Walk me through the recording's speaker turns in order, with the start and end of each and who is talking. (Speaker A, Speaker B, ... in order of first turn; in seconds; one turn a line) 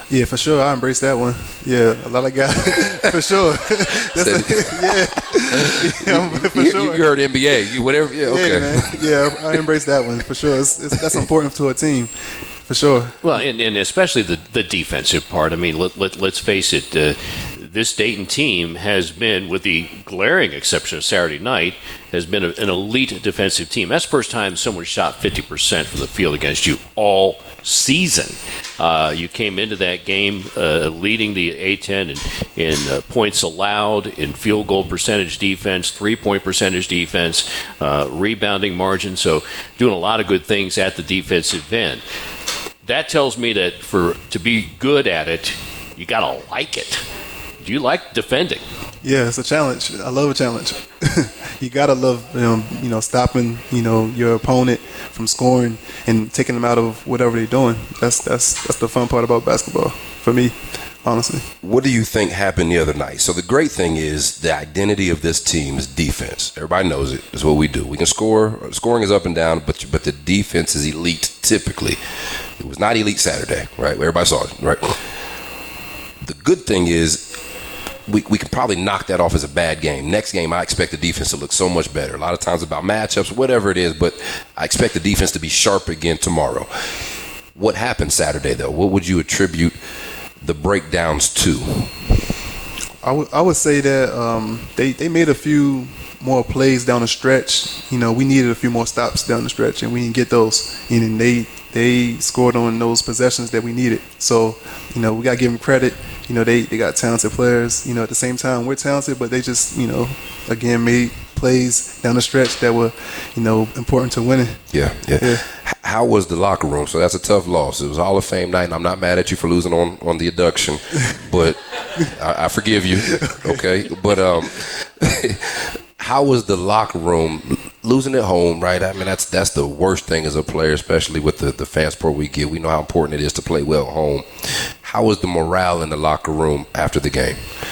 Speaker A: 0.1-7.2
Speaker B: 4.1-9.6
Speaker A: 8.2-12.1
Speaker B: 10.9-11.2
Speaker A: 12.7-13.2
Speaker C: 13.2-42.0
Speaker C: 42.8-47.0
Speaker C: 47.6-48.6
Speaker A: 49.0-61.5
Speaker B: 61.6-72.0
Speaker B: 72.6-75.0
Speaker B: 76.2-77.4
Speaker B: 78.1-86.7
Speaker B: 87.5-89.8
Speaker B: 90.4-91.9
Speaker A: 93.0-114.6
Speaker B: 114.7-137.4
Speaker A: 123.2-123.6